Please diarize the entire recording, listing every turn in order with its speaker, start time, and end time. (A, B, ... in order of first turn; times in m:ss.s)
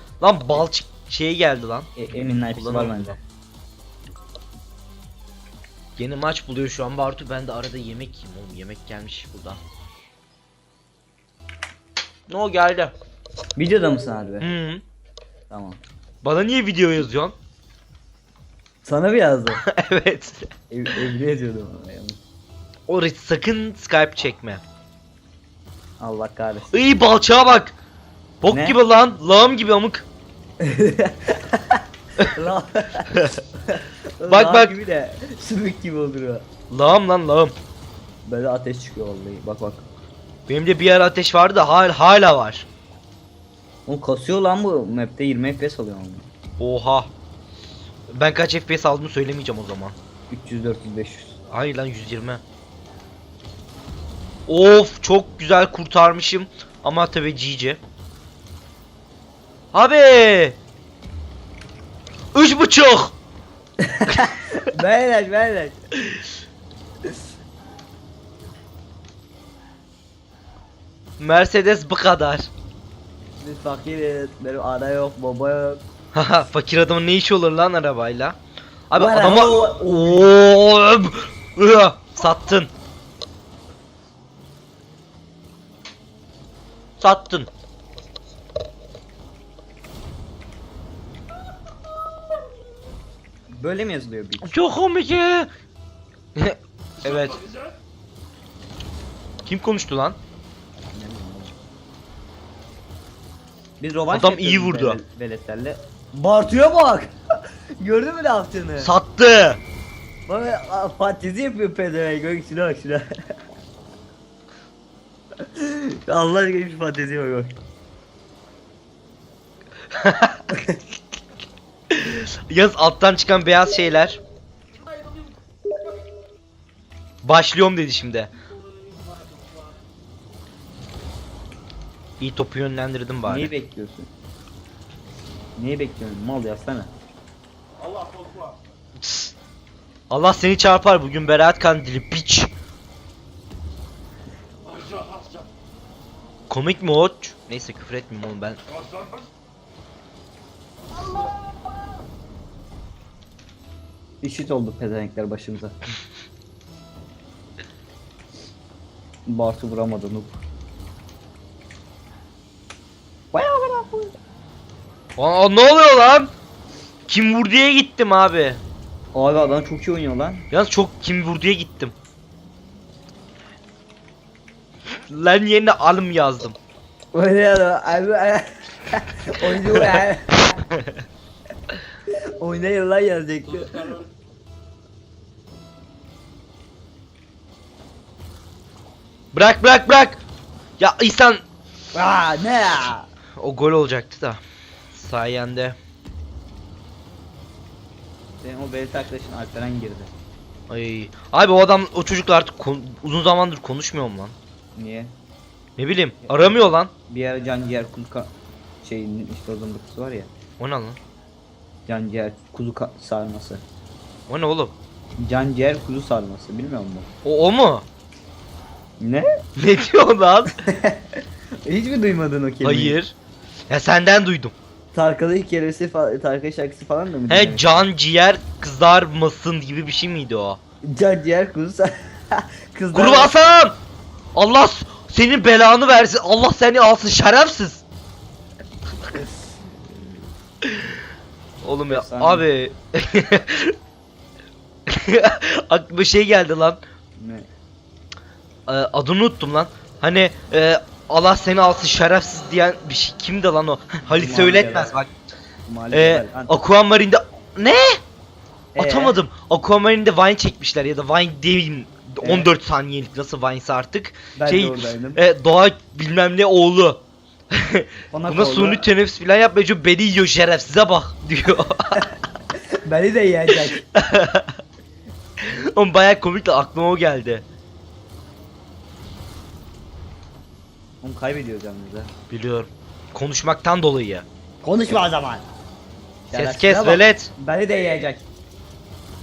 0:00.2-0:01.9 A
0:02.0-0:03.2 B
0:02.5-0:03.2 A
0:06.0-0:09.6 A
0:12.3-0:12.9 A
0:13.6-0:14.5 B
0:14.4-0:14.8 A
0:15.5-0:15.8 B
0:16.2-0:17.3 A
0:18.8-0:19.6 B
0:19.6-0:20.4 A
0:20.7-0:22.2 B
0:22.9-0:24.6 A
0:26.0-0:26.8 B
0:26.7-0:27.7 A
0:28.4-0:30.1 A
0:28.5-0:28.8 B
0:30.6-0:36.4 B
0:34.3-0:34.8 A
0:36.7-0:37.6 A
0:38.2-0:39.8 B
0:40.5-0:42.7 A
0:43.9-0:46.3 B
0:46.6-0:47.1 A
0:48.1-0:50.0 A
0:50.3-0:51.4 B
0:51.5-0:52.4 A
0:54.5-0:57.8 A
0:59.7-1:00.6 A
1:02.3-1:03.2 A
1:03.8-1:05.8 B
1:11.2-1:12.5 A
1:13.4-1:15.8 B
1:16.1-1:18.4 A
1:18.9-1:22.7 A
1:18.9-1:20.3 B
1:27.0-1:27.5 A
1:33.5-1:34.5 B
1:34.4-1:35.5 A
1:36.3-1:37.4 A
1:39.4-1:40.2 A
1:40.9-1:41.5 B
1:43.8-1:47.1 B
1:44.1-1:45.0 A
1:47.8-1:48.9 B
1:48.8-1:49.6 A
1:50.3-1:53.1 B
1:55.4-1:57.5 B
2:00.0-2:00.4 A
2:00.5-2:00.8 B
2:01.9-2:04.2 A
2:07.2-2:08.3 A
2:12.2-2:13.5 A
2:13.2-2:14.1 B
2:15.6-2:16.9 B
2:19.0-2:19.3 A
2:20.1-2:22.5 A
2:26.5-2:28.6 A
2:34.2-2:35.7 B
2:39.2-2:40.4 B
2:43.3-2:44.1 B
2:45.2-2:46.3 A
2:47.1-2:48.6 A
2:49.1-2:50.4 B
2:50.5-2:51.9 A
2:55.1-2:56.6 A
2:57.1-3:00.6 B
3:02.4-3:04.0 B
3:09.3-3:10.2 A
3:10.8-3:11.4 A
3:11.9-3:13.1 B
3:13.4-3:14.4 A
3:14.9-3:15.8 A
3:18.4-3:20.1 B
3:20.7-3:24.3 A
3:24.8-3:25.1 B
3:25.8-3:26.9 A
3:26.2-3:28.3 B
3:28.8-3:30.3 B
3:30.6-3:31.0 A
3:31.9-3:33.6 B
3:34.3-3:34.7 A
3:35.2-3:37.1 B
3:37.2-3:37.8 A
3:39.0-3:39.2 B
3:39.6-3:40.5 A
3:40.6-3:43.0 B
3:42.6-3:43.1 A
3:43.7-3:44.5 A
3:44.9-3:47.7 B
3:47.3-3:50.6 A
3:50.8-3:53.5 B
3:52.9-3:53.8 A
3:54.3-3:57.8 A
4:01.6-4:03.8 A
4:01.9-4:02.5 B
4:04.9-4:06.8 A
4:07.2-4:07.5 B
4:08.7-4:15.1 A
4:14.1-4:15.0 B
4:15.6-4:16.6 B
4:15.9-4:18.0 A
4:18.7-4:19.2 B
4:18.8-4:32.0 A
4:22.2-4:22.5 B
4:24.4-4:25.2 B
4:28.1-4:28.8 B
4:32.8-4:33.9 B
4:33.9-4:34.6 A
4:35.4-4:37.4 A
4:41.0-4:42.1 B
4:42.3-4:44.2 A
4:44.6-4:45.4 B
4:46.2-4:48.3 B
4:46.3-4:47.3 A